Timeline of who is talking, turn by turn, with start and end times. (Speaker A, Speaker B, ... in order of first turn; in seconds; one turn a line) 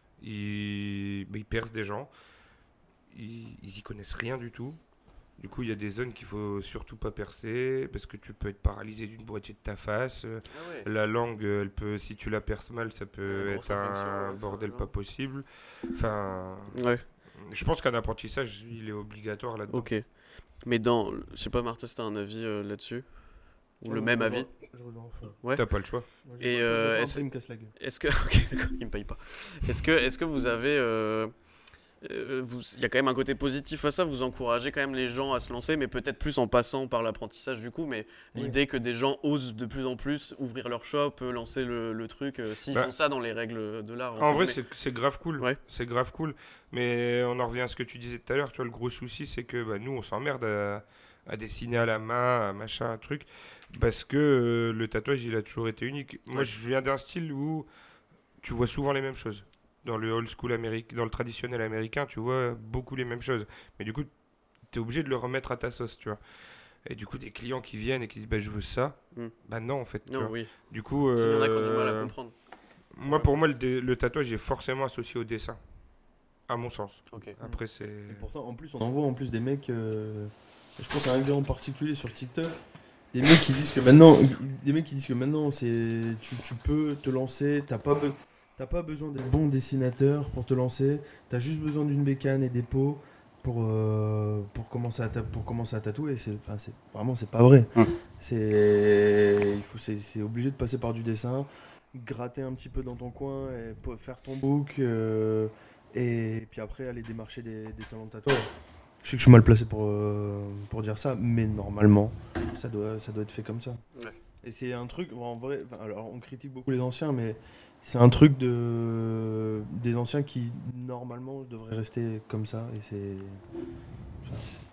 Speaker A: 0.2-2.1
Speaker A: 3.1-4.8
Speaker A: 5.4-16.8
Speaker B: 10.5-10.9
Speaker B: 13.2-14.9
Speaker B: 16.7-17.0
Speaker A: 17.4-19.9
Speaker B: 19.7-20.0
Speaker B: 20.6-23.1
Speaker B: 23.8-24.5
Speaker C: 23.9-25.4
Speaker A: 25.5-26.1
Speaker C: 26.2-27.7
Speaker B: 26.4-27.3
Speaker B: 27.8-31.3
Speaker B: 32.0-44.6
Speaker A: 44.2-57.7
Speaker A: 58.4-64.1
Speaker A: 64.7-66.2
Speaker A: 66.8-72.1
Speaker B: 70.0-70.5
Speaker B: 71.1-72.3
Speaker A: 72.9-75.6
Speaker A: 76.5-78.2
Speaker B: 77.1-77.3
Speaker C: 77.4-82.6
Speaker C: 83.1-108.5
Speaker C: 109.0-113.8
Speaker C: 114.4-123.4
Speaker C: 124.2-124.5